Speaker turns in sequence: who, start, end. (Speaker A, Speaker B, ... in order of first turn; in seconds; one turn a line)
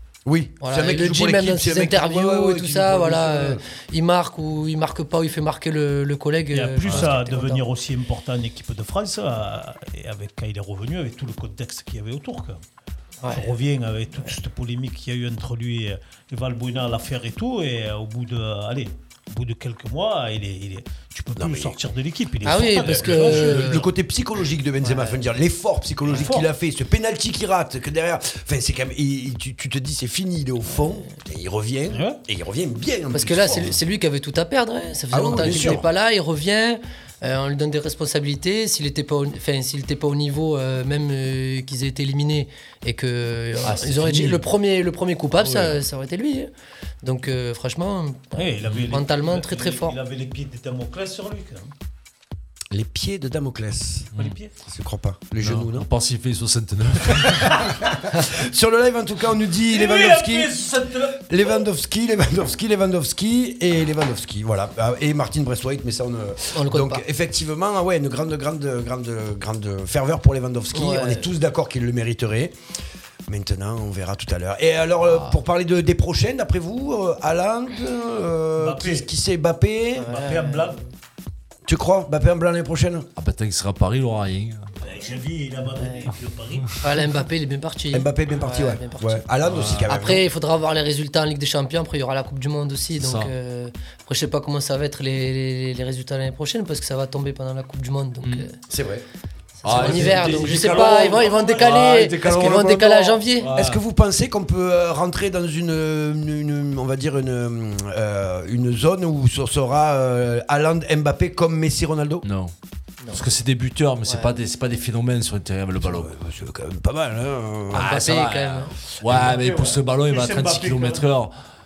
Speaker A: 0.2-3.6
Speaker B: 0.6-7.6
Speaker C: 6.5-12.6
Speaker B: 13.2-13.5
Speaker C: 13.3-23.9
Speaker A: 21.4-21.8
Speaker B: 22.4-23.9
Speaker A: 22.5-33.8
Speaker B: 24.8-25.2
Speaker C: 26.1-26.5
Speaker C: 31.9-32.2
Speaker B: 33.1-46.5
Speaker A: 35.1-35.9
Speaker D: 43.7-44.4
Speaker B: 47.0-50.0
Speaker C: 48.4-51.7
Speaker D: 48.7-48.9
Speaker A: 52.7-54.1
Speaker C: 54.1-54.5
Speaker A: 54.6-55.9
Speaker D: 55.4-57.7
Speaker A: 57.1-60.5
Speaker C: 59.6-61.6
Speaker A: 61.3-72.5
Speaker B: 66.5-67.0
Speaker B: 70.7-71.3
Speaker A: 73.3-80.2
Speaker D: 75.0-75.4
Speaker C: 78.6-79.0
Speaker B: 80.0-80.9
Speaker C: 80.0-80.8
Speaker A: 81.7-83.1
Speaker D: 83.2-84.7
Speaker C: 84.8-87.0
Speaker B: 85.8-86.1
Speaker B: 86.8-89.2
Speaker A: 87.9-90.2
Speaker D: 89.4-89.9
Speaker B: 89.9-98.5
Speaker D: 93.0-93.3
Speaker D: 98.2-98.5
Speaker A: 98.7-99.0
Speaker B: 99.6-103.5
Speaker D: 99.6-103.8
Speaker A: 99.7-100.2
Speaker C: 100.0-101.7
Speaker A: 102.3-102.7
Speaker A: 103.5-112.2
Speaker D: 112.2-112.5
Speaker D: 113.1-116.1
Speaker B: 114.0-114.3
Speaker A: 115.8-118.0
Speaker D: 117.7-121.3
Speaker B: 117.7-118.7
Speaker C: 119.1-121.0